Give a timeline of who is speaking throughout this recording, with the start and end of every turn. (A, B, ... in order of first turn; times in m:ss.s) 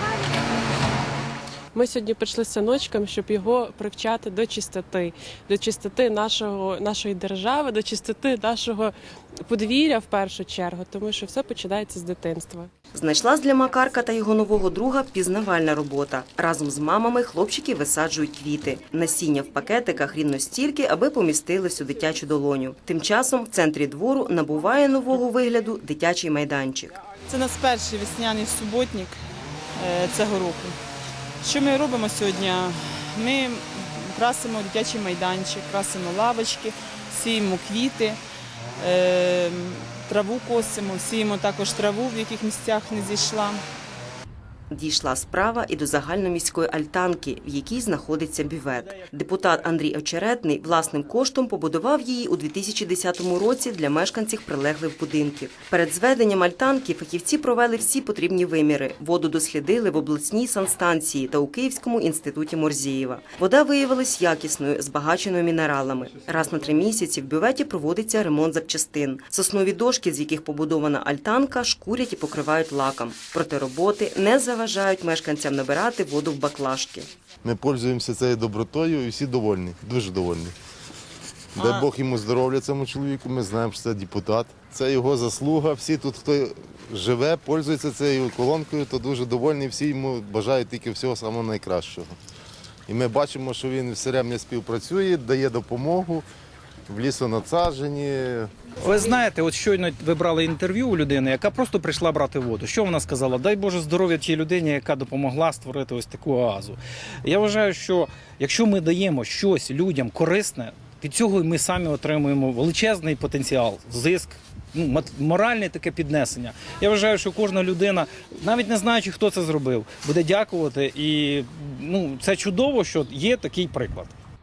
0:01.7-0:12.7 A
0:12.9-0:27.0 B
0:27.3-0:29.2 C
0:29.8-0:30.8 C
0:31.4-0:38.2 C
0:38.8-0:43.6 C
0:44.7-1:17.1 B
1:17.4-1:20.5 D
1:21.5-1:32.1 D
1:21.6-1:21.8 C
1:32.9-1:36.2 D
1:36.9-1:38.5 D
1:38.8-2:04.1 E